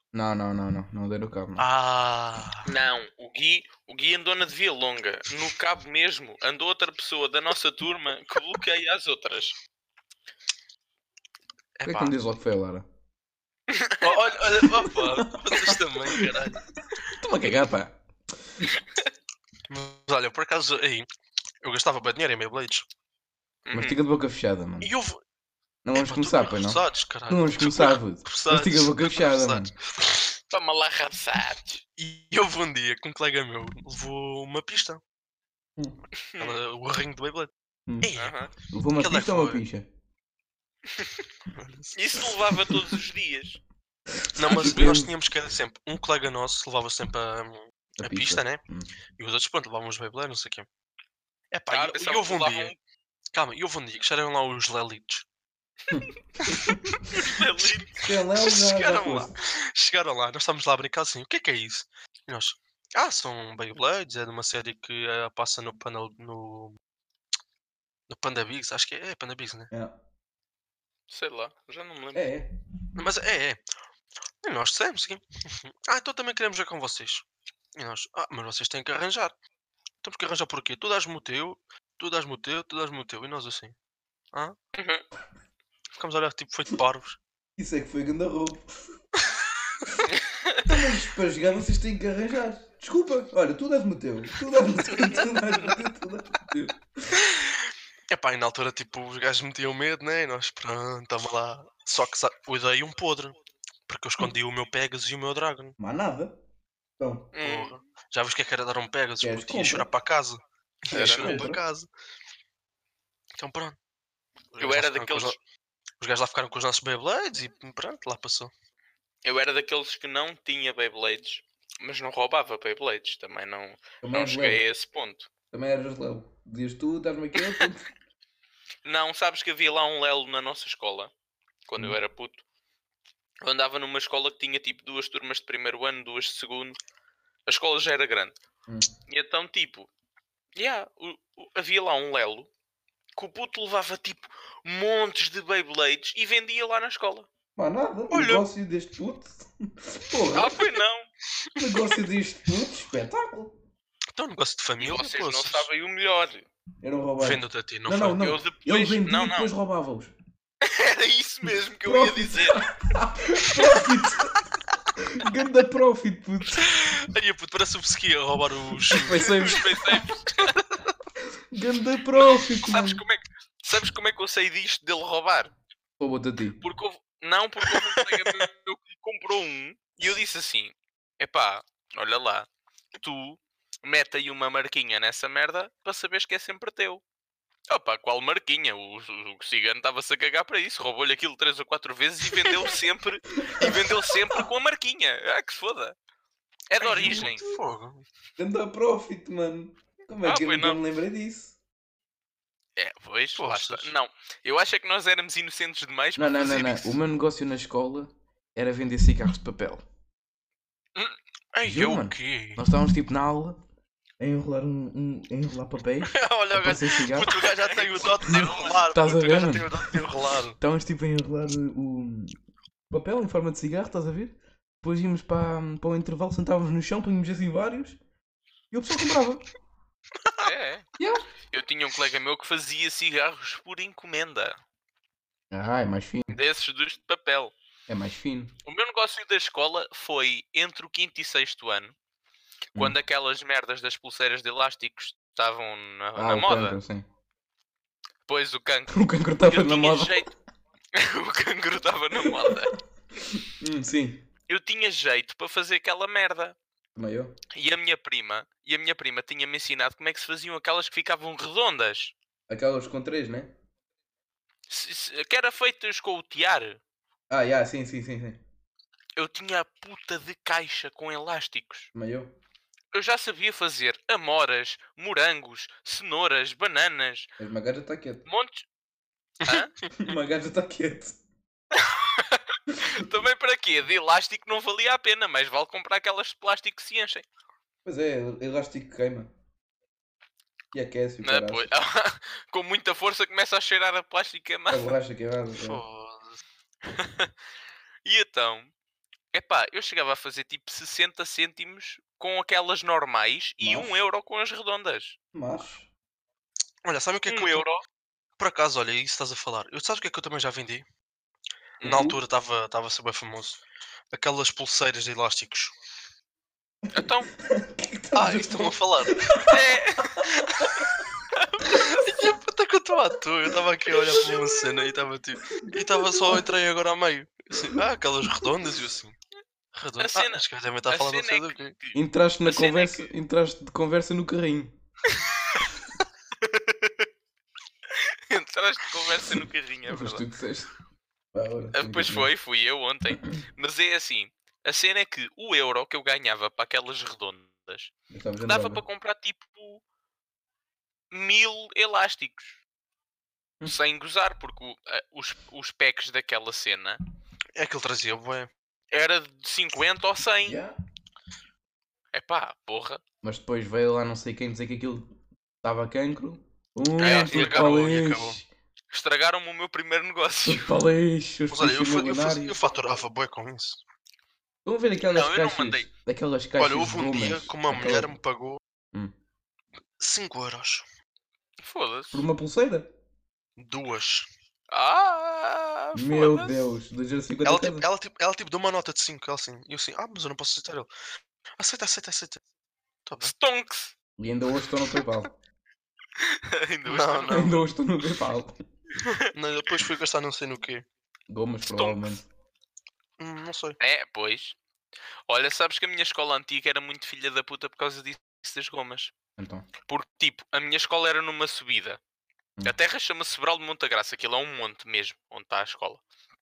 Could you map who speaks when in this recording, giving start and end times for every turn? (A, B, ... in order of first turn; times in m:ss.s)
0:00.1-0:01.6 A
0:01.6-0:02.7 B
0:02.7-0:09.6 C
0:11.8-0:12.1 B
0:11.9-0:12.9 A
0:13.7-0:14.1 C
0:14.0-0:16.6 B
0:14.8-0:16.3 A
0:17.1-0:18.7 A
0:19.7-0:21.1 B
0:21.6-0:22.9 B
0:23.7-0:24.0 C
0:23.7-0:24.9 A
0:24.8-0:25.2 B
0:25.8-0:29.7 A
0:25.9-0:30.3 B
0:30.5-0:31.8 C
0:32.0-0:35.0 B
0:36.2-0:36.6 C
0:36.4-0:38.4 B
0:38.2-0:38.5 C
0:38.7-0:39.9 A
0:39.0-0:39.6 B
0:41.5-0:42.7 B
0:41.9-0:43.6 C
0:44.2-0:45.1 A
0:44.4-0:48.6 B
0:44.6-0:44.8 C
0:48.0-0:48.9 A
0:49.2-0:50.7 B
0:51.5-0:52.7 B
0:51.7-0:52.8 C
0:53.3-0:55.3 B
0:55.9-0:57.0 A
0:57.1-0:58.1 C
0:58.0-0:59.3 A
0:58.4-1:06.8 B
1:08.1-1:09.7 B
1:09.7-1:10.0 A
1:11.1-1:12.3 C
1:12.1-1:12.5 A
1:13.0-1:13.6 B
1:14.4-1:17.2 B
1:17.8-1:19.4 B
1:20.0-1:23.8 B
1:24.8-1:25.0 C
1:26.0-1:27.2 B
1:27.6-1:28.9 A
1:30.1-1:30.6 C
1:30.6-1:37.2 A
1:37.2-1:43.4 B
1:43.9-1:45.8 B
1:45.8-1:46.4 A
1:47.0-1:47.3 A
1:47.3-1:47.8 C
1:47.4-1:51.9 B
1:49.2-1:49.9 A
1:50.9-1:51.5 C
1:50.9-1:51.6 A
1:53.4-1:53.8 B
1:54.5-1:55.4 B
1:54.6-1:55.4 C
1:56.0-1:58.5 B
1:59.2-2:05.3 C
2:04.0-2:04.6 A
2:05.5-2:07.9 A
2:08.8-2:11.1 C
2:11.7-2:12.4 C
2:13.4-2:16.8 C
2:17.5-2:18.4 C
2:19.1-2:19.9 C
2:20.6-2:22.5 C
2:23.2-2:27.3 C
2:27.6-2:30.6 A
2:28.1-2:28.5 B
2:30.3-2:31.1 C
2:31.6-2:33.6 A
2:31.6-2:32.0 B
2:34.1-2:35.7 B
2:34.8-2:36.5 C
2:36.8-2:40.1 A
2:37.2-2:38.2 B
2:38.2-2:39.5 C
2:40.6-2:42.7 C
2:41.8-2:46.7 A
2:46.7-2:49.3 B
2:48.9-2:50.2 A
2:49.2-2:50.6 C
2:50.5-2:50.8 B
2:51.5-2:53.0 A
2:52.2-2:55.5 C
2:56.0-2:56.6 A
2:56.6-3:02.5 C
2:57.7-2:58.2 B
3:03.0-3:07.0 C
3:07.7-3:16.0 C
3:13.4-3:13.9 A
3:16.7-3:17.4 C
3:16.8-3:18.0 B
3:18.4-3:21.6 A
3:20.2-3:20.8 C
3:22.8-3:27.0 C
3:23.4-3:23.9 B
3:26.2-3:29.8 A
3:31.5-3:32.6 B
3:31.6-3:33.6 A
3:34.2-3:37.4 A
3:36.0-3:40.6 B
3:37.2-3:38.8 C
3:38.2-3:42.4 A
3:42.9-3:48.0 A
3:48.7-3:49.5 A
3:50.2-3:50.5 B
3:50.4-3:50.9 C
3:51.0-3:51.3 A
3:51.5-3:54.6 C
3:55.5-3:56.4 A
3:56.3-3:57.5 C
3:57.9-3:58.6 A
3:58.6-4:02.0 C
4:02.8-4:06.8 C
4:06.2-4:07.1 A
4:08.3-4:10.3 C
4:08.9-4:10.3 A
4:10.9-4:12.7 C
4:12.2-4:12.6 A
4:13.2-4:14.2 A
4:14.5-4:16.6 C
4:17.0-4:17.3 A
4:17.5-4:22.2 C
4:22.5-4:23.5 A
4:24.7-4:26.8 C
4:27.3-4:28.4 A
4:29.2-4:31.9 C
4:31.9-4:32.3 A
4:32.9-4:37.3 C
4:37.4-4:38.2 A
4:38.3-4:38.7 C
4:39.4-4:39.9 B
4:39.4-4:39.7 C
4:40.0-4:41.2 A
4:41.8-4:47.3 C
4:47.8-4:49.3 A
4:50.7-4:51.7 A
4:51.2-4:54.9 C
4:54.7-4:55.8 A
4:55.6-4:56.4 B
4:56.8-4:57.3 C
4:58.0-4:58.7 C
4:59.3-5:05.2 C
5:03.6-5:04.0 A
5:05.3-5:05.9 A
5:06.8-5:07.7 B
5:07.3-5:07.8 C
5:08.4-5:10.8 B
5:11.8-5:12.1 C
5:11.8-5:13.6 B
5:11.8-5:12.2 A
5:14.1-5:15.7 B
5:16.9-5:17.3 C
5:17.0-5:21.1 A
5:18.2-5:19.3 B
5:19.5-5:20.3 C
5:21.3-5:22.0 C
5:21.8-5:29.2 B
5:24.0-5:24.8 A
5:25.5-5:26.5 A
5:27.6-5:27.8 A
5:28.4-5:28.7 A
5:29.7-5:31.8 B
5:30.0-5:33.1 C
5:31.9-5:34.7 A
5:35.1-5:35.6 C
5:36.4-5:37.1 C
5:38.0-5:40.2 C
5:39.9-5:40.7 A
5:41.3-5:42.3 A
5:41.7-5:47.9 C
5:48.1-5:48.8 A
5:48.4-5:49.8 C
5:51.1-5:52.6 C
5:53.6-5:57.0 C
5:57.6-5:58.5 B
5:58.9-6:00.6 C
6:00.4-6:00.8 A
6:02.1-6:03.0 C
6:03.2-6:05.1 A
6:05.6-6:08.5 A
6:07.0-6:07.9 C
6:07.0-6:08.4 B
6:08.9-6:10.8 C
6:10.4-6:12.6 A
6:11.5-6:13.8 B
6:14.6-6:18.1 A
6:15.1-6:15.9 C
6:16.6-6:18.6 B
6:20.0-6:20.8 B
6:21.6-6:22.3 C
6:22.1-6:22.9 A
6:23.6-6:24.3 B
6:24.7-6:26.6 C
6:26.0-6:27.9 A
6:27.4-6:30.9 B
6:31.6-6:32.4 B
6:33.1-6:33.3 B
6:33.2-6:34.0 C
6:34.2-6:35.4 A
6:36.2-6:37.6 C
6:36.9-6:37.6 B
6:37.3-6:38.6 A
6:39.3-6:40.9 B
6:41.3-6:42.3 A
6:41.6-6:42.1 C
6:43.2-6:43.8 B
6:43.8-6:44.6 C
6:45.3-6:49.1 C
6:49.4-6:49.7 A
6:49.8-6:52.0 C
6:52.6-6:56.0 C